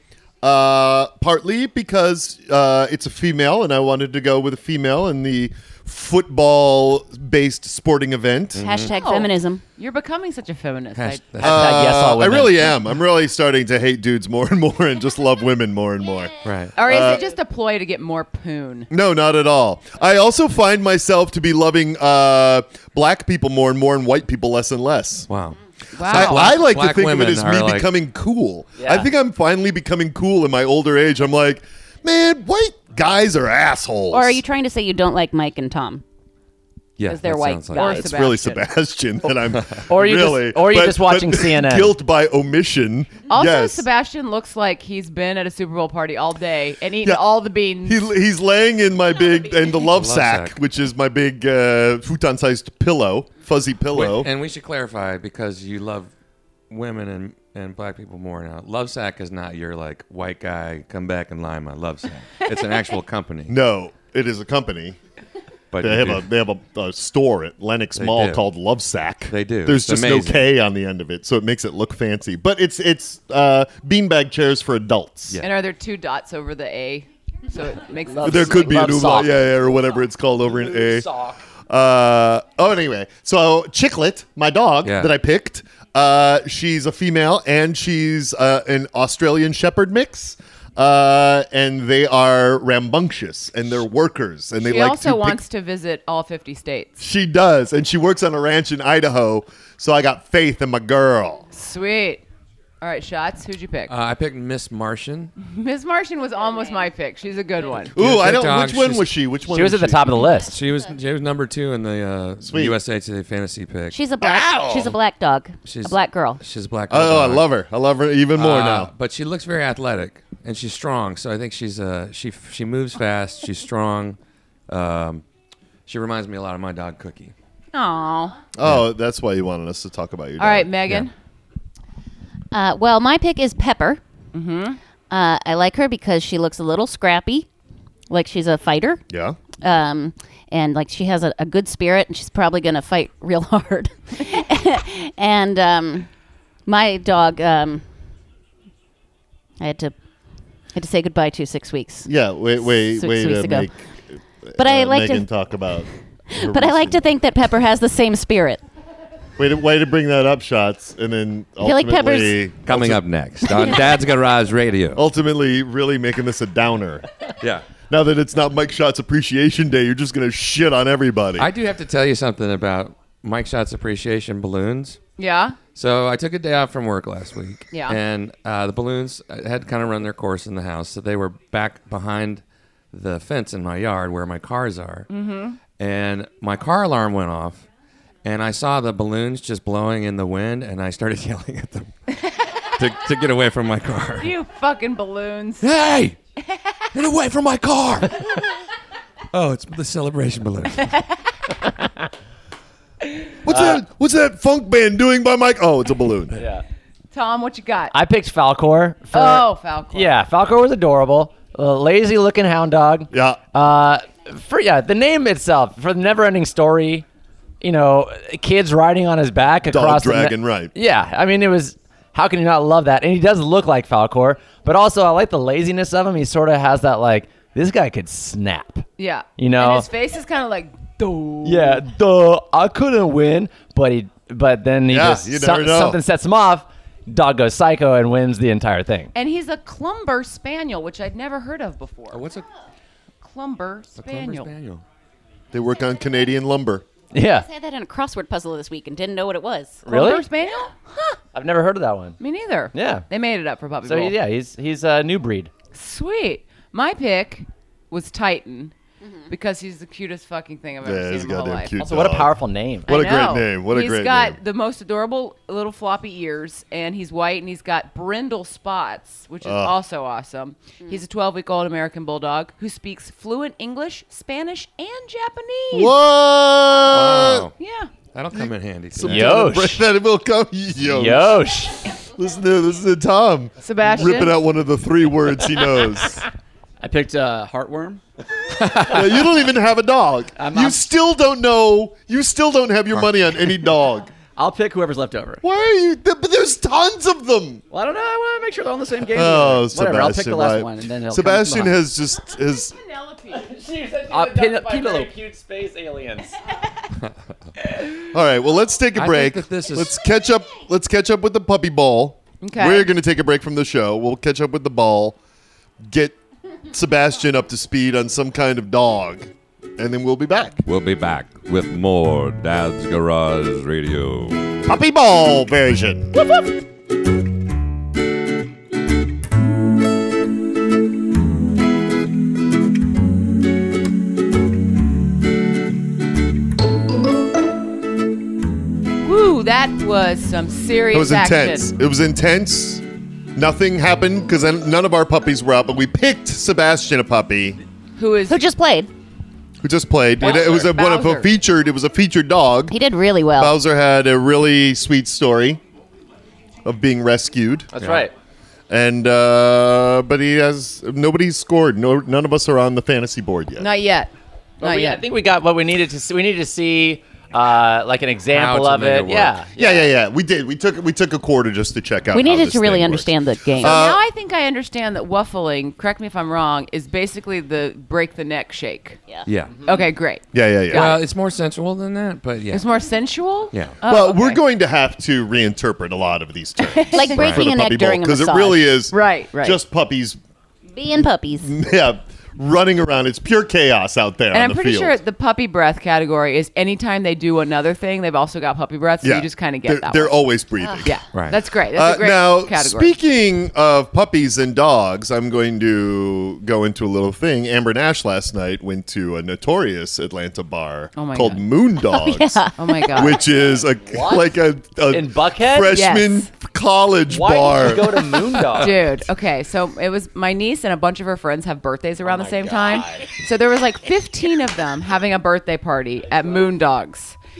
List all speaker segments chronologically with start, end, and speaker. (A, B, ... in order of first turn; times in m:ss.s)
0:00.4-0:08.6 A
0:08.5-0:08.9 B
0:08.6-0:09.6 C
0:08.9-0:11.3 D
0:11.0-0:11.8 B
0:11.4-0:12.8 E
0:11.4-0:17.3 A
0:16.4-0:16.8 B
0:16.8-0:18.9 D
0:18.9-0:25.3 A
0:25.3-0:27.9 B
0:26.0-0:26.5 D
0:26.1-0:34.4 A
0:28.8-0:29.1 E
0:34.1-0:36.0 C
0:37.0-0:37.9 B
0:37.0-0:38.1 C
0:37.7-0:38.6 D
0:37.8-0:43.8 A
0:39.9-0:42.0 E
0:43.3-0:48.0 D
0:47.8-0:54.3 A
0:49.8-0:50.6 B
0:53.9-0:56.1 B
0:56.7-1:03.5 B
1:03.5-1:05.0 A
1:05.7-1:06.2 B
1:05.8-1:15.4 A
1:08.0-1:08.4 B
1:09.3-1:10.4 B
1:15.4-1:19.0 D
1:18.0-1:19.5 E
1:18.2-1:21.1 A
1:20.7-1:21.4 E
1:21.7-1:35.4 A
1:24.8-1:25.1 B
1:34.5-1:37.0 D
1:37.0-1:41.4 A
1:41.5-1:42.2 D
1:42.8-1:43.9 D
1:43.9-1:45.3 B
1:45.4-1:47.9 D
1:47.9-1:49.1 B
1:47.9-1:50.3 A
1:49.5-1:50.6 E
1:50.3-1:54.0 B
1:52.4-1:52.8 A
1:53.9-1:56.4 C
1:54.2-1:54.9 A
1:55.6-1:57.5 B
1:56.9-1:58.9 A
1:58.3-2:04.2 B
2:04.7-2:05.2 B
2:05.9-2:07.3 B
2:07.7-2:08.3 D
2:08.5-2:10.7 A
2:10.4-2:11.1 D
2:12.5-2:14.0 C
2:14.3-2:14.8 D
2:15.1-2:17.5 C
2:18.1-2:19.0 C
2:19.1-2:19.4 A
2:19.6-2:26.1 C
2:26.6-2:27.9 C
2:29.6-2:29.9 C
2:30.7-2:32.1 C
2:32.0-2:37.0 A
2:32.6-2:33.7 C
2:34.6-2:35.3 C
2:36.3-2:38.6 C
2:39.4-2:43.0 A
2:41.6-2:42.4 C
2:42.6-2:45.0 B
2:43.5-2:43.8 C
2:44.9-2:47.0 A
2:47.4-2:47.6 B
2:47.9-2:51.5 A
2:51.4-2:55.0 B
2:55.2-2:55.6 D
2:55.7-3:05.1 B
2:57.7-2:58.0 D
3:05.1-3:05.6 D
3:05.8-3:07.6 B
3:08.2-3:11.9 B
3:12.8-3:14.3 B
3:14.2-3:15.7 D
3:15.6-3:16.2 B
3:16.9-3:18.4 B
3:19.3-3:21.0 B
3:23.4-3:26.4 A
3:23.5-3:23.8 E
3:26.3-3:26.6 E
3:27.1-3:27.9 D
3:27.9-3:37.0 E
3:29.1-3:30.1 D
3:33.1-3:33.4 A
3:37.6-3:48.8 E
3:39.7-3:40.7 A
3:49.0-3:51.8 D
3:49.4-3:49.9 E
3:51.4-3:59.1 E
3:54.9-3:56.0 A
3:59.1-4:02.2 D
4:02.1-4:02.4 B
4:03.2-4:04.5 D
4:04.0-4:04.8 B
4:05.5-4:06.8 A
4:07.1-4:07.5 E
4:07.4-4:09.8 C
4:09.8-4:10.2 E
4:09.8-4:11.2 D
4:11.3-4:12.2 E
4:12.2-4:14.2 D
4:12.7-4:13.0 E
4:13.8-4:15.5 E
4:15.7-4:18.7 D
4:19.0-4:19.3 C
4:19.3-4:21.7 D
4:20.8-4:22.3 A
4:21.8-4:23.0 E
4:22.8-4:24.4 A
4:22.8-4:35.9 D
4:29.4-4:29.7 A
4:35.7-4:37.5 A
4:36.9-4:37.5 B
4:37.6-4:37.9 D
4:38.1-4:39.4 B
4:38.4-4:41.5 A
4:39.0-4:39.9 E
4:40.8-4:41.9 E
4:42.1-4:46.2 A
4:43.6-4:44.4 D
4:46.8-4:48.0 F
4:48.6-4:49.2 B
4:48.8-4:54.1 A
4:50.4-4:50.9 F
4:54.4-4:55.4 F
4:55.4-4:57.6 A
4:57.7-5:01.8 F
4:59.1-5:02.8 A
5:03.0-5:03.4 D
5:03.3-5:06.4 E
5:04.1-5:05.1 F
5:08.1-5:15.2 A
5:08.9-5:10.0 B
5:12.4-5:12.9 D
5:15.8-5:16.2 A
5:16.7-5:20.6 A
5:20.6-5:24.6 B
5:24.6-5:26.2 A
5:39.0-5:41.7 D
5:40.9-5:42.8 A
5:43.4-5:47.6 A
5:48.0-5:48.4 D
5:48.3-5:48.9 C
5:49.6-5:52.8 A
5:50.2-5:51.3 D
5:52.7-5:53.6 C
5:53.4-5:55.6 A
5:56.6-5:57.7 A
5:57.7-5:58.1 E
5:57.8-5:58.0 B
5:58.7-6:03.7 A
6:03.6-6:05.0 D
6:04.6-6:09.9 E
6:08.3-6:09.4 B
6:09.6-6:14.0 A
6:12.1-6:13.8 C
6:13.6-6:19.0 D
6:19.3-6:19.6 B
6:19.6-6:21.0 D
6:20.3-6:20.9 A
6:20.7-6:22.7 B
6:22.5-6:24.4 D
6:23.5-6:23.8 B
6:23.8-6:30.2 A
6:26.6-6:27.4 D
6:26.9-6:28.8 C
6:28.9-6:29.6 D
6:30.7-6:31.5 C
6:31.4-6:35.0 A
6:34.3-6:40.2 D
6:39.0-6:41.0 A
6:40.8-6:42.9 D
6:41.1-6:41.4 B
6:41.7-6:58.3 A
6:51.0-6:51.4 D
6:51.8-6:52.9 C
6:52.6-6:53.2 D
6:53.8-6:54.4 E
6:54.9-6:55.8 E
6:55.7-6:56.3 D
6:57.1-6:58.8 E
6:58.3-6:58.6 B
6:58.6-7:07.2 D
7:02.0-7:03.0 E